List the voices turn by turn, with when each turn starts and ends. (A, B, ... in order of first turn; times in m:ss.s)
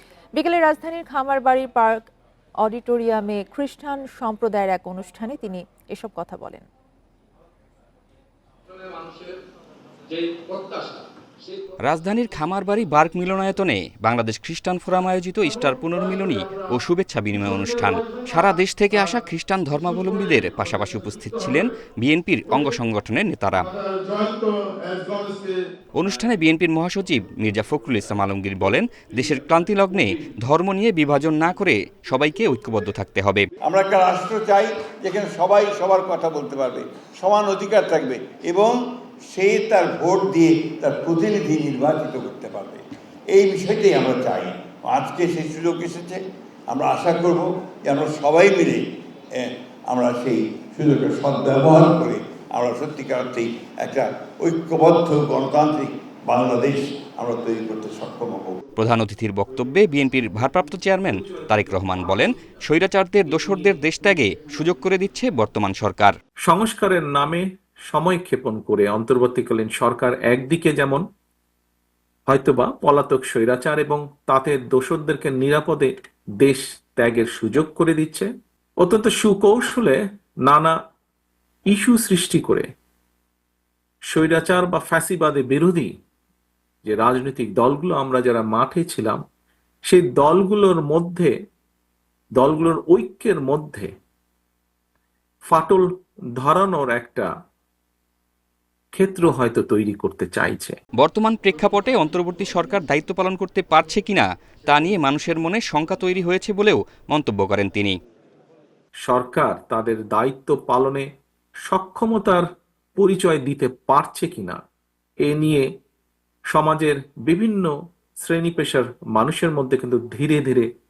0:00.4-0:02.1 A
0:02.6-0:06.7 A
0:08.7-0:09.4 B
0:10.1-0:11.6 B
0:11.8-0:23.7 C
0:23.8-0:25.6 B
0:26.0-0:33.5 C
0:33.6-0:38.8 D
0:39.3-0:48.8 D
0:49.4-0:58.6 D
0:58.8-1:06.2 C
1:06.4-1:11.0 E
1:12.3-1:18.3 E
1:18.8-1:20.7 E
1:21.7-1:22.7 E
1:24.1-1:25.9 E
1:26.8-1:29.2 E
1:29.9-1:31.3 E
1:32.4-1:33.9 E
1:35.5-1:37.3 E
1:38.9-1:40.8 E
1:41.0-1:48.0 C
1:49.0-1:51.1 E
1:51.7-1:52.4 E
1:53.0-1:54.6 E
1:55.2-1:55.7 E
1:56.5-2:00.7 E